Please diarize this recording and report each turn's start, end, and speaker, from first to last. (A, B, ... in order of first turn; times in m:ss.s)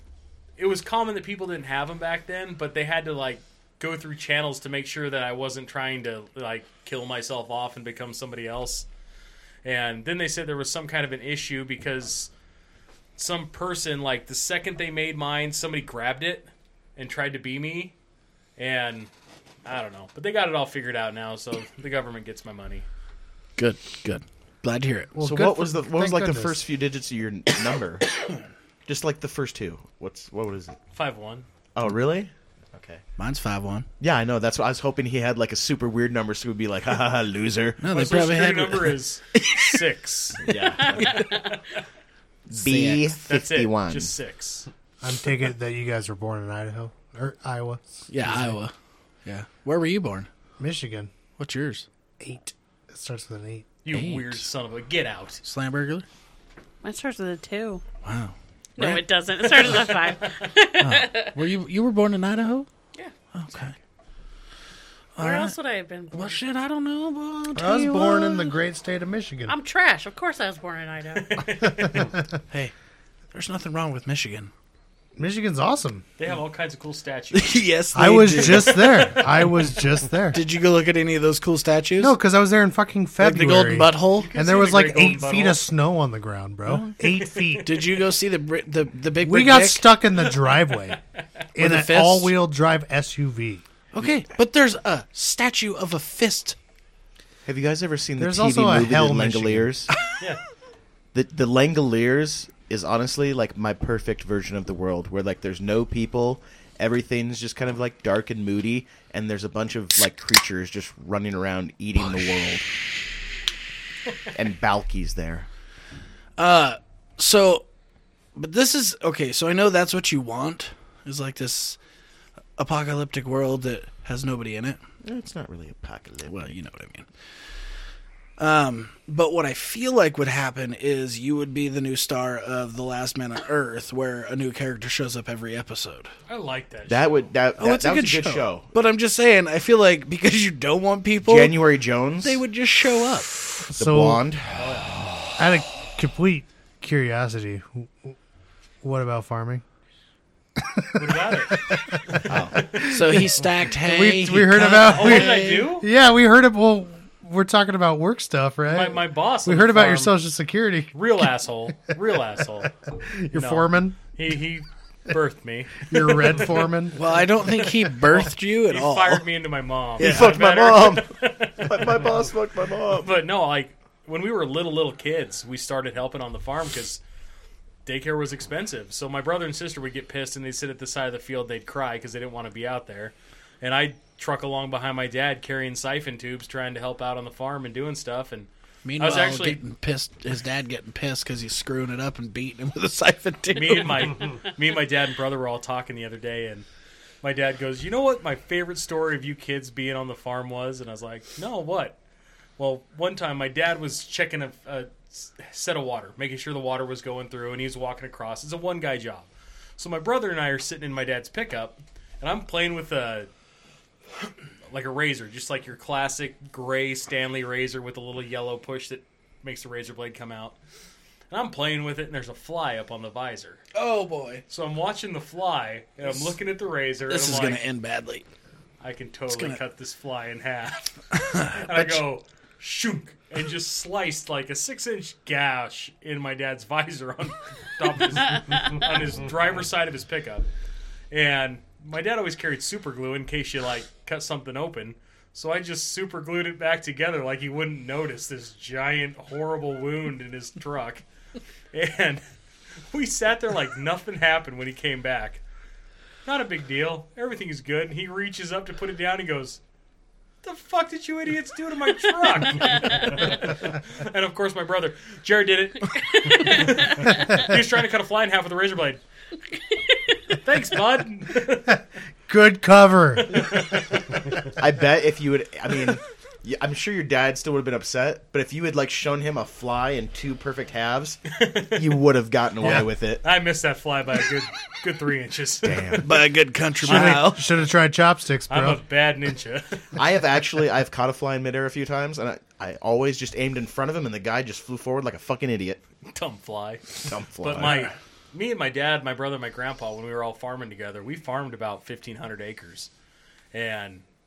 0:00.6-0:08.8 A
0:09.6-0:12.3 A
0:13.2-0:17.9 A
0:18.6-0:19.1 A
0:19.6-0:22.8 A
0:23.6-0:25.3 B
0:25.1-0:26.6 C
0:25.2-0:28.1 D
0:28.8-0:30.8 D
0:30.9-0:31.5 A
0:31.7-0:33.0 D
0:33.2-0:33.9 B
0:34.0-0:37.8 D
0:37.8-0:39.7 B
0:37.9-0:41.6 A
0:40.4-0:41.4 D
0:40.8-0:41.6 E
0:42.5-0:44.1 D
0:42.5-0:43.2 B
0:43.3-0:44.7 A
0:45.0-0:48.6 C
0:48.1-0:48.7 B
0:49.2-0:50.3 B
0:50.6-0:51.1 C
0:51.4-0:51.8 B
0:52.2-0:53.8 C
0:53.8-0:55.4 A
0:53.9-0:54.4 B
0:55.4-0:56.0 B
0:56.8-0:57.8 E
0:58.0-0:59.8 B
0:58.8-1:01.4 E
0:59.5-1:00.5 A
1:00.8-1:02.7 B
1:03.3-1:03.7 B
1:05.2-1:05.5 B
1:05.2-1:06.4 E
1:06.1-1:08.5 B
1:07.5-1:09.5 C
1:09.5-1:11.4 E
1:11.2-1:12.1 A
1:11.6-1:12.2 C
1:13.3-1:14.5 B
1:15.2-1:16.0 C
1:16.2-1:17.6 A
1:17.3-1:19.2 B
1:17.9-1:20.4 C
1:18.4-1:19.6 A
1:20.3-1:22.1 B
1:22.0-1:27.8 C
1:23.2-1:24.3 B
1:24.2-1:25.6 A
1:26.6-1:27.0 B
1:27.0-1:27.6 A
1:27.6-1:29.9 B
1:29.2-1:31.0 C
1:31.5-1:33.6 C
1:31.6-1:32.3 B
1:33.9-1:36.6 B
1:37.4-1:39.9 D
1:38.2-1:39.7 C
1:41.1-1:52.7 D
1:54.3-1:55.5 D
1:56.4-1:57.6 B
1:58.3-2:01.8 B
2:02.6-2:04.8 B
2:05.0-2:06.5 D
2:06.2-2:07.1 B
2:08.4-2:16.1 B
2:16.3-2:17.3 A
2:16.9-2:18.7 D
2:17.6-2:21.6 B
2:21.2-2:22.4 D
2:22.2-2:23.5 B
2:23.7-2:24.2 C
2:23.8-2:25.3 D
2:24.5-2:25.0 A
2:25.4-2:28.1 C
2:28.8-2:29.6 C
2:30.6-2:40.9 C
2:31.0-2:32.9 A
2:32.2-2:32.7 D
2:32.8-2:35.7 B
2:34.8-2:35.9 A
2:38.7-2:40.1 A
2:40.9-2:46.7 A
2:43.0-2:44.0 C
2:45.9-2:47.1 C
2:46.9-2:49.3 B
2:47.6-2:52.3 A
2:50.0-2:50.4 B
2:50.0-2:53.1 D
2:52.9-2:57.0 A
2:57.8-3:09.6 A
3:08.8-3:14.2 B
3:13.5-3:16.6 A
3:17.2-3:22.0 A
3:22.6-3:33.3 A
3:34.7-3:40.6 A
3:41.3-3:43.6 A
3:43.7-3:44.4 B
3:44.5-3:47.6 A
3:47.1-3:48.2 B
3:48.8-4:00.4 A
3:49.3-3:49.6 B
3:51.1-3:52.0 B
4:01.1-4:11.0 A
4:11.7-4:12.2 A
4:12.9-4:15.4 A
4:16.2-4:19.6 A
4:20.4-4:29.0 A
4:27.1-4:27.6 C
4:30.3-4:31.8 A
4:32.3-4:33.6 C
4:33.2-4:34.2 A
4:34.4-4:41.2 D
4:41.3-4:42.0 A
4:41.7-4:43.2 D
4:42.6-4:42.9 C
4:42.6-4:46.1 A
4:45.6-4:46.2 D
4:46.0-4:47.4 B
4:46.8-4:48.8 C
4:46.8-4:47.4 A
4:48.5-4:49.8 A
4:49.9-4:55.8 D
4:56.1-5:02.9 A
4:57.0-4:57.9 D
5:03.5-5:04.0 A